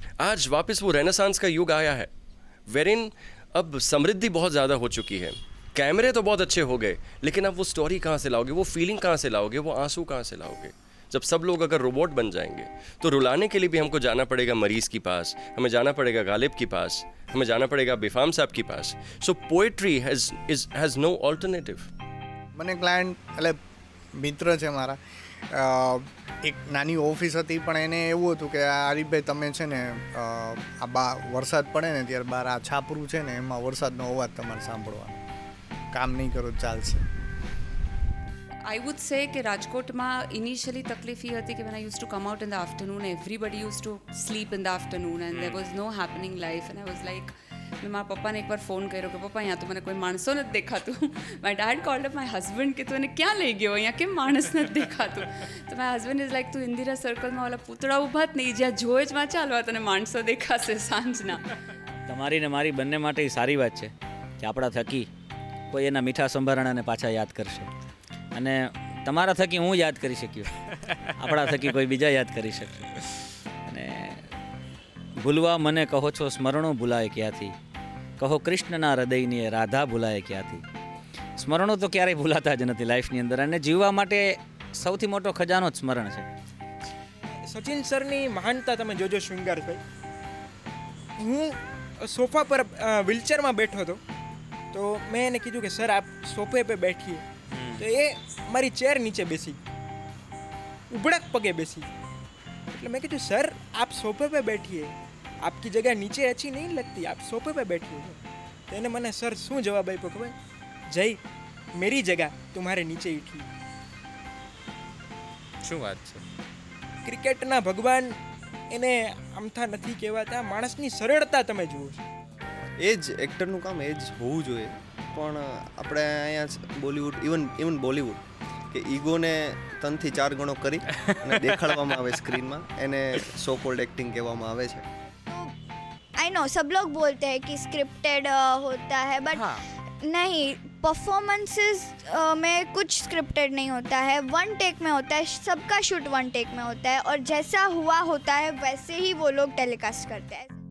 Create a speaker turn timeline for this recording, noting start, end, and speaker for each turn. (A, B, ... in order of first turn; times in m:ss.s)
0:00.2-0:02.1 A
0:02.7-0:21.9 A
0:22.6-0:23.6 B
0:24.2-0:25.0 B
0:25.5-0:35.2 B
0:35.9-0:37.0 B
0:38.7-1:01.6 C
1:02.1-1:05.1 D
1:05.7-1:07.7 D
1:08.3-1:12.9 D
1:13.7-1:14.2 D
1:15.2-1:17.6 D
1:18.2-1:20.6 D
1:21.4-1:26.3 D
1:27.4-1:29.8 E
1:31.2-1:34.0 E
1:34.7-1:39.6 E
1:40.9-1:41.9 E
1:42.7-1:50.3 E
1:50.9-1:51.2 E
1:51.8-1:53.4 E
1:57.0-1:58.2 E
1:58.7-2:02.0 E
2:02.8-2:14.9 F
2:16.2-2:30.5 G